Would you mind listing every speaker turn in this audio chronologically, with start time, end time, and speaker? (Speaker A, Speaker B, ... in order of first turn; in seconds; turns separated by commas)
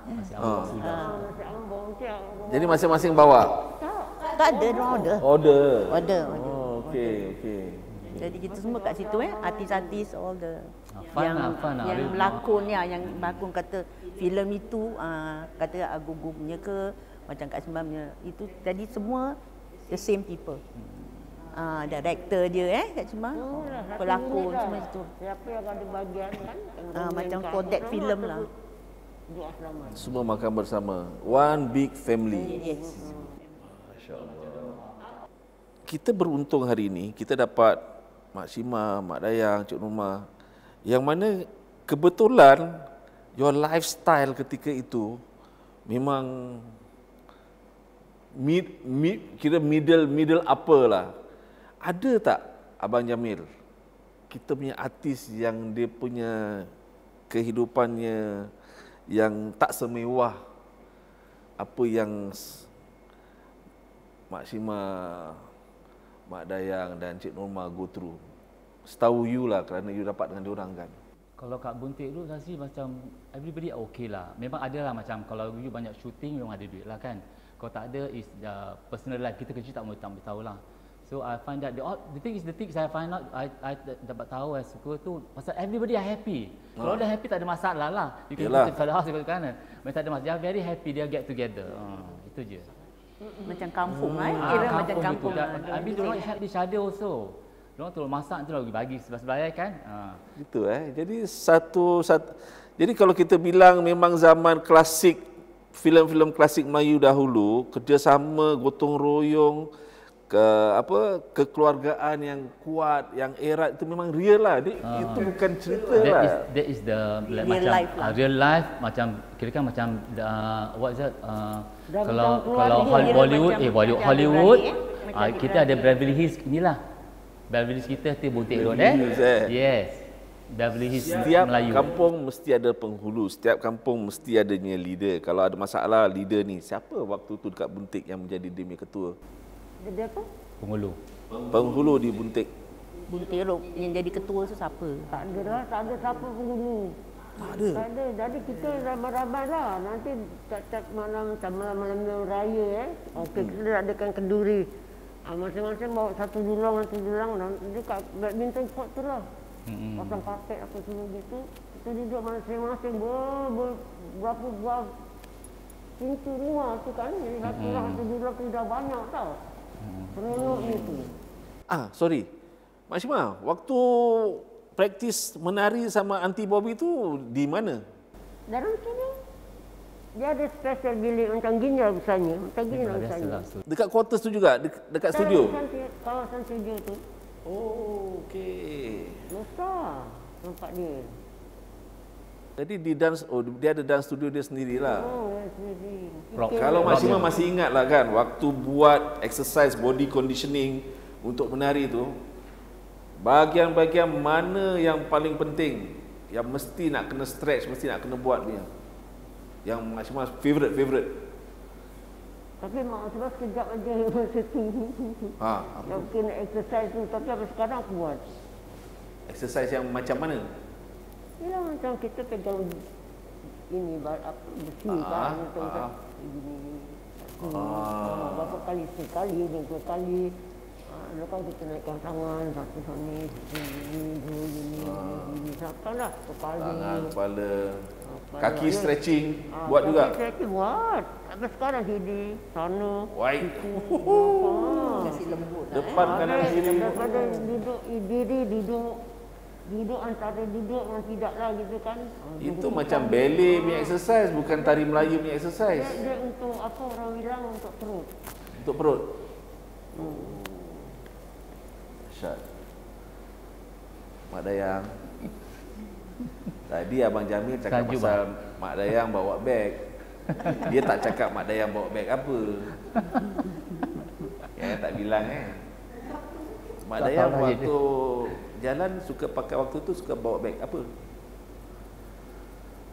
Speaker A: 0.1-1.3, Speaker B: 0.4-0.8, Speaker C: 0.8-1.1, Speaker D: 0.8-5.2, Speaker B: 2.5-3.6, Speaker C: 4.4-7.3, Speaker B: 5.2-7.9, Speaker A: 7.9-8.3, Speaker C: 8.1-20.6, Speaker D: 8.1-10.0, Speaker A: 10.9-13.4, Speaker A: 20.8-21.3, Speaker C: 21.4-25.1, Speaker D: 23.4-28.5, Speaker C: 26.9-28.5, Speaker D: 29.3-30.1, Speaker A: 30.0-30.3, Speaker B: 30.0-32.6, Speaker D: 32.3-33.4, Speaker C: 32.4-33.3, Speaker B: 33.8-34.8, Speaker A: 34.3-35.1, Speaker B: 35.9-37.8, Speaker B: 38.3-40.3, Speaker B: 40.9-45.2, Speaker B: 45.9-46.8, Speaker B: 48.4-51.1, Speaker B: 51.8-53.5, Speaker B: 54.3-56.7, Speaker B: 57.3-58.5, Speaker B: 59.1-60.4, Speaker B: 61.6-62.7, Speaker B: 64.3-65.5, Speaker B: 66.3-68.2, Speaker B: 68.8-71.0, Speaker A: 71.4-92.7, Speaker B: 86.8-87.1, Speaker B: 88.4-88.7, Speaker C: 93.4-96.3, Speaker B: 93.8-94.6, Speaker A: 94.4-100.2, Speaker B: 100.4-109.7, Speaker B: 110.3-116.4, Speaker A: 114.8-115.3, Speaker A: 115.9-126.8, Speaker C: 117.3-118.2, Speaker D: 121.9-124.2, Speaker C: 122.7-126.0, Speaker A: 127.5-132.0, Speaker B: 128.5-129.6, Speaker B: 130.9-139.2, Speaker D: 139.8-140.3, Speaker A: 140.6-141.0, Speaker B: 141.4-142.5, Speaker C: 143.1-145.3, Speaker D: 145.1-154.7, Speaker B: 147.4-147.9, Speaker B: 153.2-153.6, Speaker D: 155.3-159.3, Speaker A: 159.7-160.3, Speaker D: 160.0-164.9, Speaker D: 166.0-169.4, Speaker A: 167.4-168.0, Speaker A: 169.8-170.2, Speaker D: 170.1-171.1, Speaker B: 170.3-171.1, Speaker B: 171.7-172.3, Speaker B: 172.9-177.8, Speaker D: 178.5-179.2, Speaker D: 180.2-183.5, Speaker A: 182.7-183.6, Speaker B: 183.7-185.6, Speaker D: 185.1-187.0, Speaker B: 187.4-189.2, Speaker D: 189.3-191.1, Speaker B: 192.6-195.1, Speaker D: 194.8-197.4, Speaker A: 196.4-197.3, Speaker B: 196.5-202.2, Speaker B: 203.2-208.7, Speaker B: 209.7-211.2, Speaker D: 212.6-218.2, Speaker B: 215.4-216.1, Speaker B: 219.3-220.5, Speaker D: 221.4-222.8, Speaker D: 223.7-230.3, Speaker B: 224.9-225.9, Speaker B: 227.4-228.6, Speaker D: 230.9-237.1, Speaker B: 234.8-235.5, Speaker B: 236.6-240.1, Speaker D: 238.0-238.9, Speaker D: 239.5-245.2, Speaker B: 243.1-245.0, Speaker C: 244.9-246.7, Speaker B: 245.7-247.2, Speaker D: 246.0-249.0, Speaker D: 249.7-253.9, Speaker B: 252.4-256.1, Speaker D: 255.7-258.1, Speaker B: 258.6-259.1, Speaker B: 260.0-260.9, Speaker D: 260.0-260.4, Speaker B: 262.1-262.4, Speaker B: 264.3-264.9, Speaker B: 266.7-269.9, Speaker A: 267.6-268.2, Speaker A: 270.3-270.6, Speaker B: 270.4-273.0, Speaker B: 274.5-275.6, Speaker B: 276.8-280.9, Speaker A: 277.0-277.8